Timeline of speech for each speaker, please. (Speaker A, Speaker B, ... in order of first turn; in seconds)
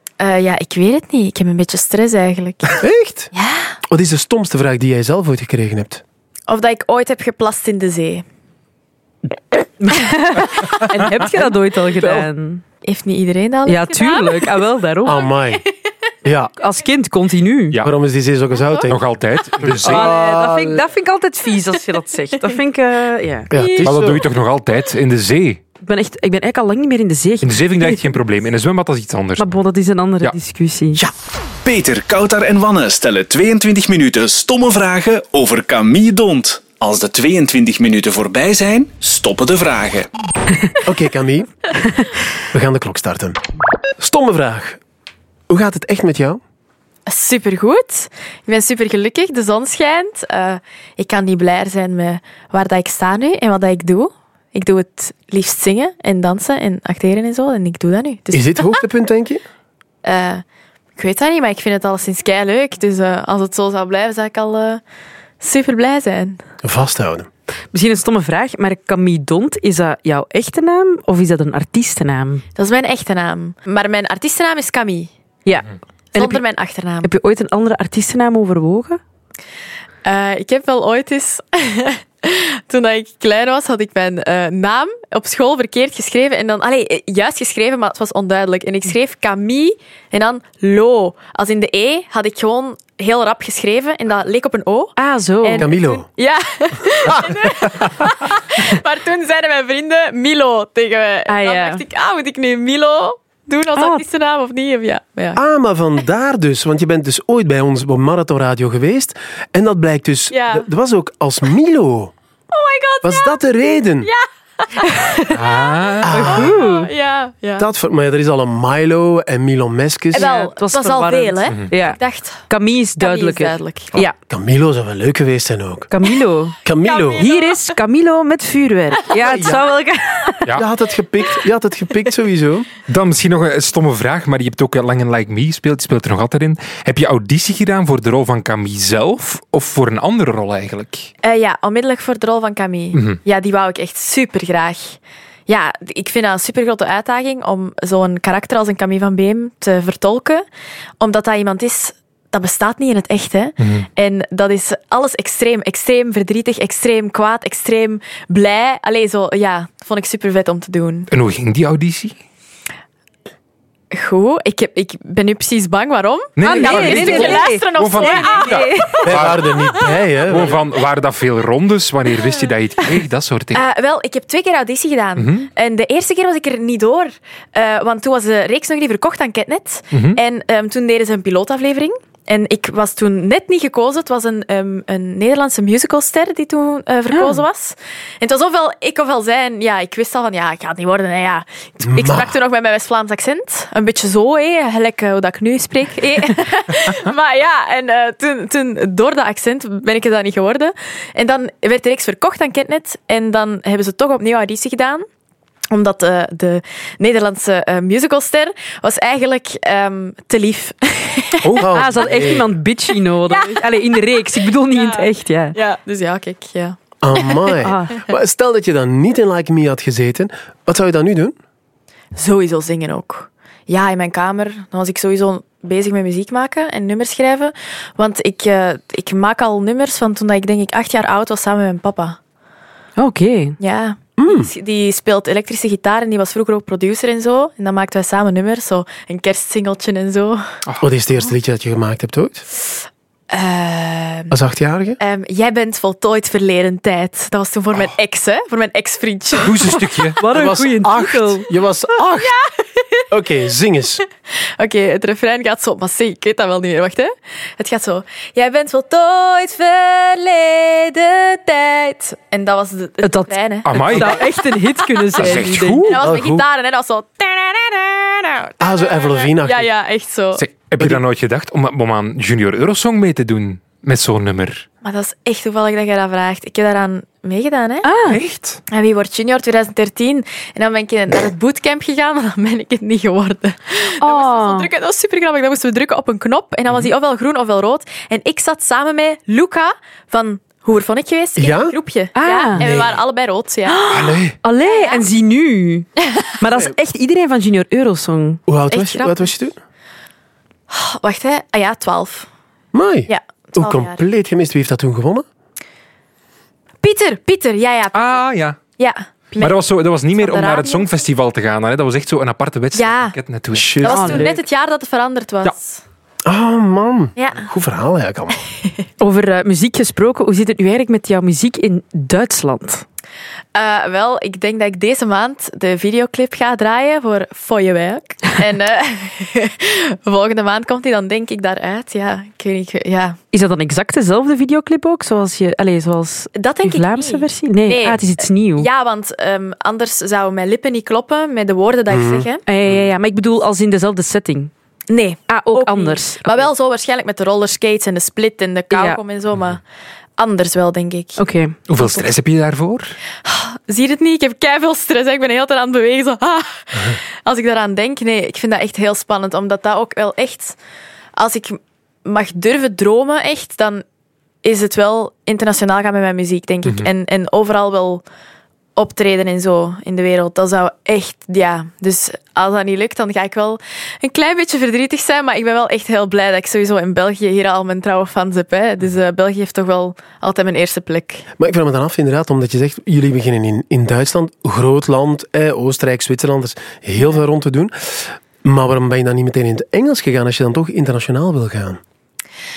Speaker A: 0.2-2.8, 3.3-3.7, 6.5-8.2, 12.8-14.6, 15.2-15.7, 23.5-23.9, 47.1-58.8, 60.0-60.4, 61.0-64.8, 65.4-66.4, 72.6-75.1, 76.1-77.1, 80.0-105.4, 110.3-110.7, 112.5-113.4, 114.0-115.7, 116.2-117.7, 120.1-124.0, 126.8-127.7, 141.2-150.4, 151.0-161.1, 163.9-169.8, 173.5-205.1, 205.7-211.7, 213.3-217.6, 222.2-232.2, 233.6-240.4, 243.3-244.3, 245.0-249.8, 252.2-253.1, 254.6-270.4, 274.8-277.9, 278.7-293.8, 294.6-295.0, 296.0-296.3, 298.7-299.3, 300.7-302.3, 303.1-304.0, 306.8-309.6, 310.1-310.9, 312.7-313.2, 313.8-315.8, 317.2-317.5, 323.6-333.2, 336.4-342.4, 344.9-349.6, 350.2-351.2, 351.8-352.1, 353.2-360.6, 361.2-363.8, 364.4-368.0, 368.8-381.3
Speaker B: 2.8-3.3, 3.9-6.0, 15.1-15.6, 16.2-16.5, 17.8-20.8, 23.5-24.2, 40.8-41.5, 42.5-43.4, 44.0-44.8, 45.5-46.4, 58.3-59.4, 66.6-67.3, 95.6-96.1, 97.1-97.5, 105.4-112.1, 113.0-114.1, 116.0-116.6, 117.6-120.3, 124.3-125.9, 126.6-127.3, 129.1-129.7, 130.5-132.7, 169.0-170.6, 191.9-192.3, 211.4-212.5, 217.0-221.4, 234.2-234.5, 240.8-242.5, 244.3-245.0, 250.3-252.3, 253.1-254.0, 266.0-266.4, 268.6-269.7, 291.4-291.8, 292.6-293.0, 293.9-294.4, 298.5-299.6, 302.7-305.2, 313.5-314.3, 316.2-318.4, 341.9-342.3, 381.4-391.8
Speaker C: 9.8-12.6, 13.7-15.2, 16.6-17.8, 19.8-23.5, 25.8-28.1, 29.4-31.0, 67.7-72.4, 75.5-76.4, 77.0-79.0, 95.0-95.7, 101.3-101.8, 103.8-104.0, 116.1-116.9, 120.1-124.2, 125.9-130.6, 166.4-169.1, 187.1-187.4, 211.7-215.6, 217.6-218.0, 233.0-233.6, 250.2-251.5, 263.0-266.0, 277.8-278.2, 284.0-284.7, 292.1-292.6, 293.7-298.4, 313.9-314.4, 319.0-322.8, 333.3-338.7, 342.5-344.5, 345.3-346.5, 348.7-349.0, 351.2-351.6
Speaker D: 18.9-20.2, 23.8-25.6, 27.4-29.6, 115.3-116.2, 132.9-141.1, 142.9-143.2, 153.6-153.9, 161.1-162.2, 166.4-169.4, 170.2-173.6, 175.2-175.5, 179.9-180.2, 249.4-250.2, 263.7-264.2, 265.2-266.2, 270.4-274.7, 278.1-278.6, 307.9-308.6, 309.4-313.8, 351.7-353.0
Speaker E: 31.6-40.1